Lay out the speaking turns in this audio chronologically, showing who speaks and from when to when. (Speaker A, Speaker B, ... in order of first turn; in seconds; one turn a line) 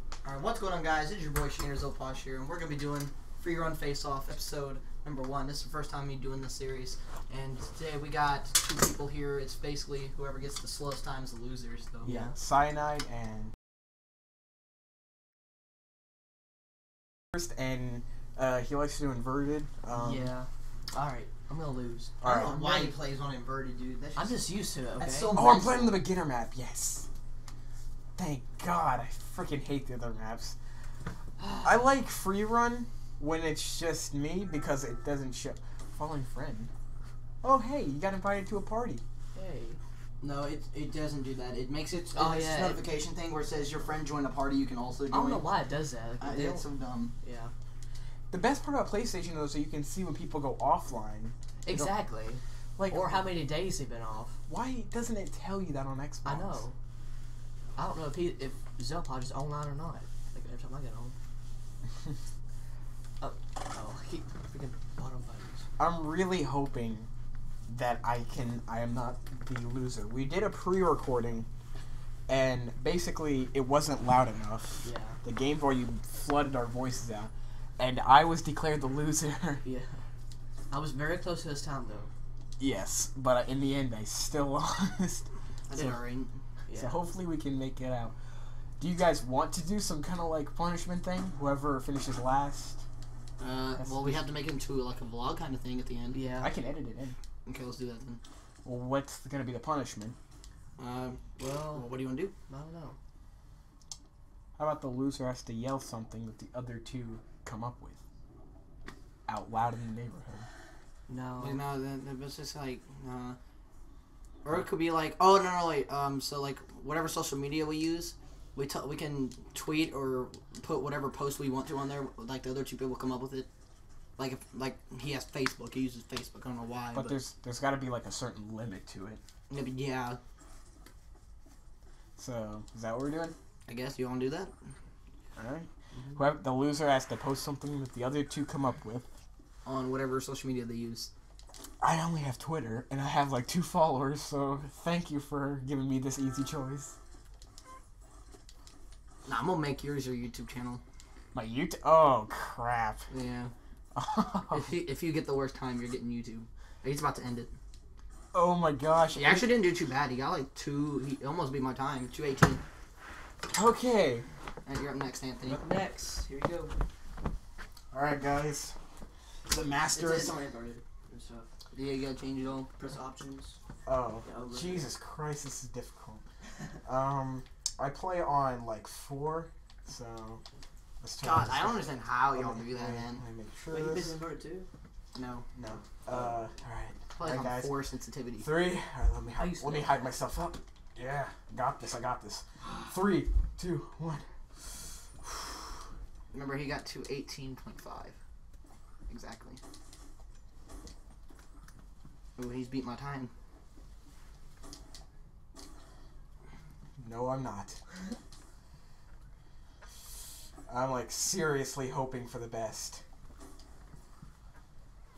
Speaker A: 0.2-12.1
Speaker B: 12.0-12.3
Speaker C: 12.1-13.5
Speaker C: 17.4-20.3
Speaker B: 19.9-22.1
Speaker C: 22.2-22.9
Speaker A: 22.2-24.4
Speaker B: 24.2-25.3
Speaker A: 25.0-26.1
Speaker C: 25.3-27.1
Speaker C: 28.2-30.6
Speaker B: 31.4-31.8
Speaker C: 31.6-36.7
Speaker C: 37.4-39.0
Speaker B: 39.4-39.8
Speaker A: 40.2-45.5
Speaker B: 42.1-42.8
Speaker B: 45.1-46.6
Speaker A: 46.2-47.1
Speaker B: 47.2-47.5
Speaker C: 48.3-51.9
Speaker B: 51.6-54.4
Speaker C: 52.8-53.3
Speaker C: 54.5-56.6
Speaker B: 56.2-56.8
Speaker B: 57.8-61.2
Speaker B: 63.2-65.7
Speaker C: 65.8-67.1
Speaker C: 67.7-71.5
Speaker C: 72.3-79.6
Speaker B: 74.8-75.2
Speaker B: 79.6-80.0
Speaker B: 80.7-82.1
Speaker C: 82.6-86.0
Speaker A: 85.7-86.4
Speaker B: 86.7-87.0
Speaker C: 86.7-88.1
Speaker C: 88.8-92.8
Speaker A: 93.4-96.2
Speaker C: 93.8-94.2
Speaker B: 96.1-96.5
Speaker C: 96.4-97.2
Speaker A: 97.5-98.2
Speaker C: 98.7-100.2
Speaker A: 100.8-102.3
Speaker B: 101.4-101.8
Speaker B: 102.5-103.0
Speaker C: 104.6-108.0
Speaker C: 109.3-110.5
Speaker B: 111.1-111.6
Speaker A: 111.4-113.4
Speaker A: 114.5-123.5
Speaker A: 124.2-127.2
Speaker C: 126.9-129.2
Speaker A: 129.5-130.2
Speaker C: 132.2-133.3
Speaker A: 133.7-134.5
Speaker C: 135.4-139.1
Speaker B: 135.9-136.2
Speaker A: 139.7-141.1
Speaker C: 141.8-146.9
Speaker A: 149.2-150.8
Speaker C: 151.3-153.1
Speaker A: 153.1-153.5
Speaker C: 153.9-154.7
Speaker A: 154.5-157.5
Speaker C: 158.3-159.5
Speaker A: 159.2-162.6
Speaker C: 163.5-164.3
Speaker A: 164.7-165.6
Speaker B: 165.4-166.7
Speaker C: 167.9-168.8
Speaker C: 169.5-170.4
Speaker B: 169.8-171.5
Speaker A: 171.7-172.7
Speaker B: 172.7-173.6
Speaker C: 173.9-176.2
Speaker B: 174.2-174.9
Speaker C: 176.8-180.4
Speaker C: 181.0-184.2
Speaker A: 181.2-183.2
Speaker B: 183.7-184.7
Speaker A: 185.1-185.5
Speaker C: 185.6-187.8
Speaker A: 187.2-188.5
Speaker C: 188.4-194.2
Speaker B: 189.4-190.0
Speaker A: 196.3-198.2
Speaker A: 199.1-199.6
Speaker A: 202.4-203.3
Speaker C: 207.0-207.8
Speaker C: 210.7-213.0